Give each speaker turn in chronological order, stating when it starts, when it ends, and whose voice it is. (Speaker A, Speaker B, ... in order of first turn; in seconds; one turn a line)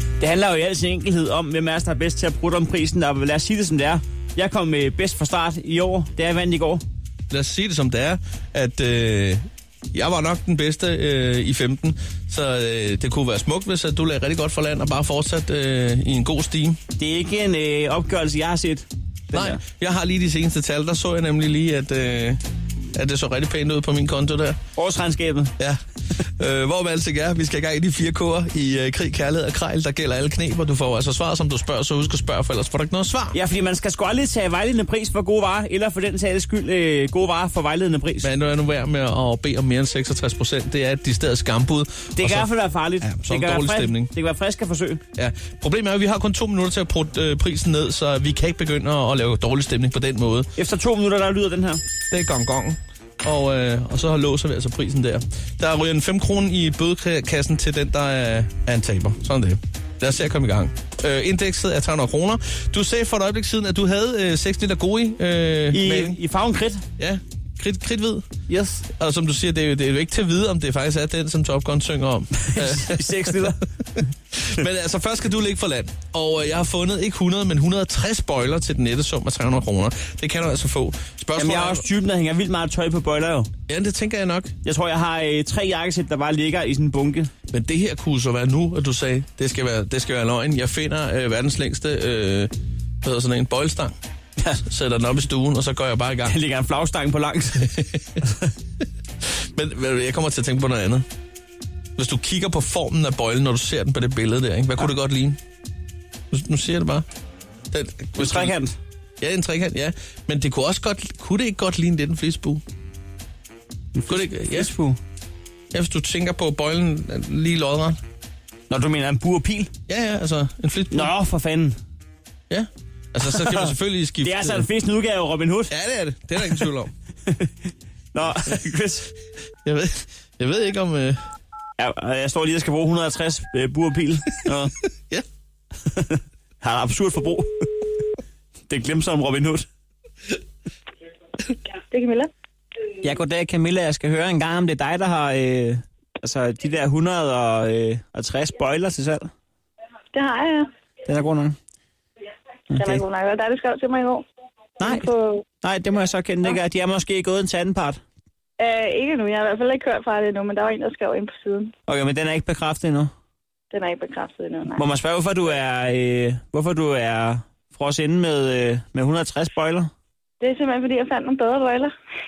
Speaker A: 0.2-6.8
Speaker B: 7.3-16.8
Speaker A: 17.0-19.6
Speaker B: 19.3-22.4
Speaker B: 22.9-24.6
Speaker A: 24.8-25.6
Speaker B: 26.4-33.4
Speaker A: 33.3-38.3
Speaker B: 38.2-42.5
Speaker A: 42.1-45.0
Speaker B: 43.0-44.1
Speaker B: 45.2-50.5
Speaker A: 50.6-51.8
Speaker B: 52.1-66.2
Speaker A: 65.7-66.8
Speaker B: 67.0-68.2
Speaker A: 68.5-68.9
Speaker B: 68.9-73.5
Speaker A: 72.4-73.6
Speaker B: 74.5-81.8
Speaker A: 81.3-83.5
Speaker B: 83.7-84.5
Speaker A: 84.6-87.3
Speaker B: 87.5-92.5
Speaker B: 93.0-94.0
Speaker B: 94.5-96.3
Speaker A: 96.2-97.8
Speaker B: 99.5-101.1
Speaker B: 102.0-105.4
Speaker B: 106.3-107.0
Speaker B: 107.7-108.6
Speaker A: 108.2-108.8
Speaker B: 109.2-112.6
Speaker A: 114.0-115.0
Speaker B: 114.1-114.7
Speaker B: 115.7-118.0
Speaker A: 118.7-119.7
Speaker B: 119.9-121.1
Speaker A: 120.9-121.8
Speaker B: 122.5-124.7
Speaker A: 123.2-123.7
Speaker A: 124.2-125.7
Speaker B: 125.7-126.9
Speaker A: 126.4-126.7
Speaker A: 128.1-129.1
Speaker B: 129.7-131.2
Speaker A: 131.8-134.7
Speaker A: 135.9-137.9
Speaker A: 138.7-139.7
Speaker C: 141.9-142.3
Speaker A: 143.0-149.3
Speaker C: 150.1-150.7
Speaker A: 151.1-151.6
Speaker A: 152.7-153.0
Speaker C: 152.7-154.3
Speaker A: 154.8-155.1
Speaker C: 154.8-155.4
Speaker A: 155.6-158.0
Speaker C: 158.6-161.7
Speaker A: 161.9-163.1
Speaker C: 163.7-164.8
Speaker A: 164.7-169.9
Speaker C: 170.4-171.9